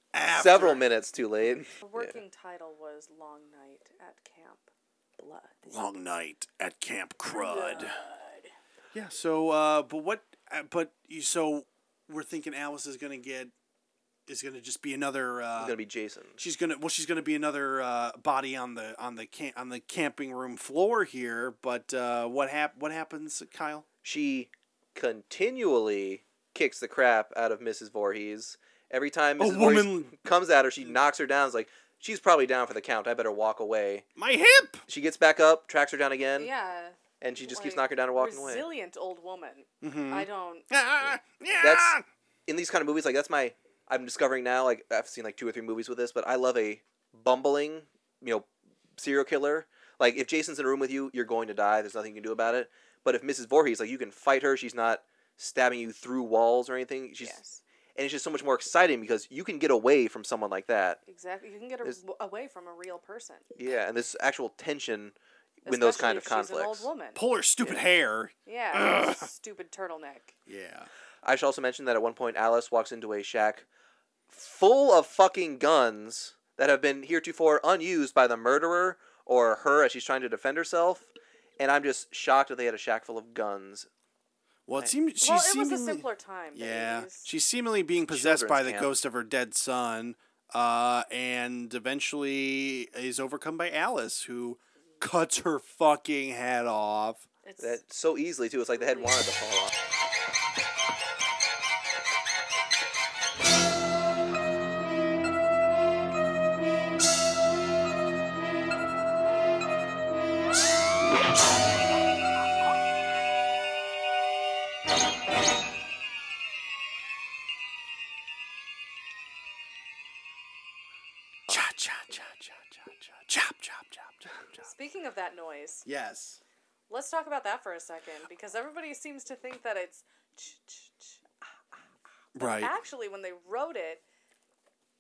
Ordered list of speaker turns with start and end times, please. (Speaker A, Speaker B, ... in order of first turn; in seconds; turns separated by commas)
Speaker A: 0.1-0.9, Speaker B: 0.3-2.2, Speaker C: 1.8-5.8, Speaker A: 5.7-8.0, Speaker C: 7.3-8.5, Speaker A: 8.9-13.5, Speaker A: 14.3-15.8, Speaker B: 15.6-16.4, Speaker A: 16.4-23.9, Speaker B: 24.0-34.1, Speaker A: 29.4-30.2, Speaker A: 34.2-34.8, Speaker B: 34.9-36.5, Speaker C: 36.4-40.7, Speaker B: 37.2-38.7, Speaker A: 39.8-42.0, Speaker B: 41.6-57.4, Speaker C: 57.2-57.6, Speaker B: 58.0-61.0, Speaker C: 61.1-63.5, Speaker B: 63.6-66.9, Speaker C: 65.7-67.2, Speaker A: 67.2-69.3, Speaker C: 68.5-70.4, Speaker A: 70.5-70.9, Speaker B: 71.2-73.7, Speaker B: 74.3-83.9, Speaker A: 84.7-97.3, Speaker C: 85.2-87.3, Speaker B: 88.1-89.0, Speaker C: 97.4-97.8, Speaker B: 97.6-99.7, Speaker C: 98.7-99.2, Speaker A: 121.5-124.6, Speaker C: 124.6-125.9, Speaker A: 125.9-126.4, Speaker C: 126.9-131.2, Speaker A: 132.3-132.7, Speaker C: 132.4-134.0